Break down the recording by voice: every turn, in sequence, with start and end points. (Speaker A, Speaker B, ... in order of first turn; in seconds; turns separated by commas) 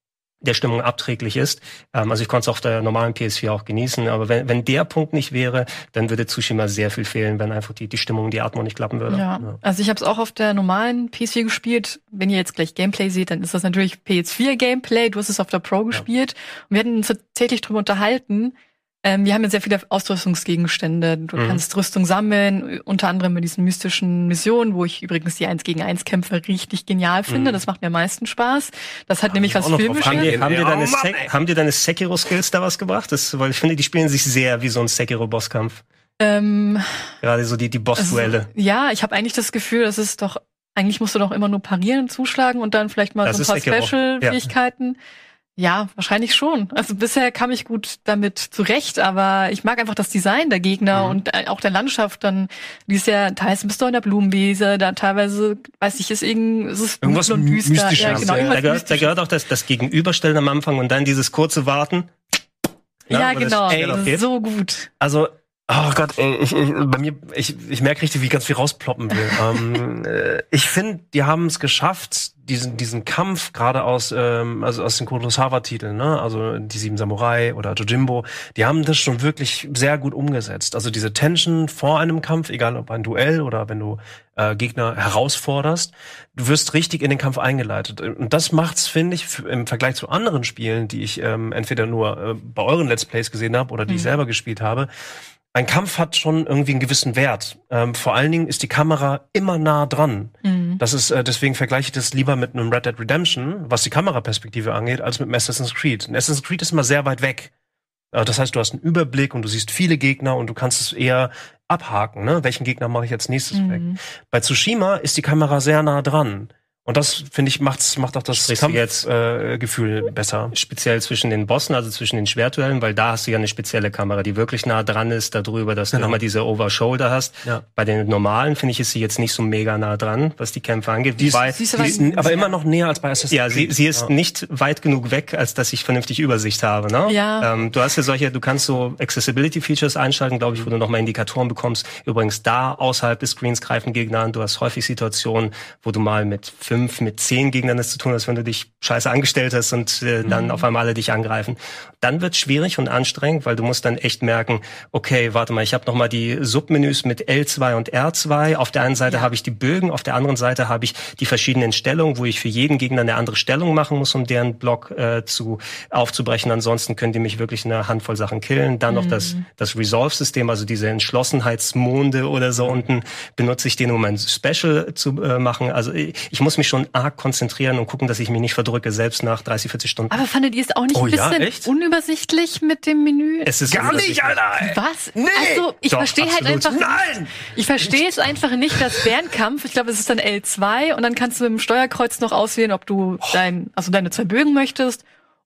Speaker A: 0.4-9.3, Speaker B: 9.1-30.4, Speaker A: 21.4-21.6, Speaker C: 27.3-27.6, Speaker C: 29.3-31.3, Speaker A: 30.1-35.8, Speaker B: 36.2-37.0, Speaker A: 37.2-38.5, Speaker B: 38.0-45.0, Speaker A: 43.2-44.4, Speaker B: 45.6-59.1, Speaker C: 57.0-58.6, Speaker A: 58.0-62.1, Speaker A: 63.1-64.2, Speaker B: 63.1-64.9, Speaker C: 63.7-64.0, Speaker C: 65.0-94.9, Speaker B: 93.9-94.2, Speaker C: 95.5-107.5, Speaker B: 100.4-100.8, Speaker C: 108.1-120.5, Speaker B: 113.5-114.0, Speaker A: 118.3-119.1, Speaker A: 120.5-131.9, Speaker C: 125.9-126.2, Speaker B: 131.2-132.5, Speaker C: 131.8-134.1, Speaker A: 133.3-180.2, Speaker B: 137.1-137.5, Speaker B: 150.3-150.7, Speaker B: 168.9-169.4, Speaker B: 180.1-184.0, Speaker C: 180.9-181.7, Speaker A: 183.4-184.4, Speaker C: 183.7-185.7, Speaker B: 184.6-195.0, Speaker A: 185.9-186.8, Speaker C: 186.7-188.0, Speaker C: 188.7-189.0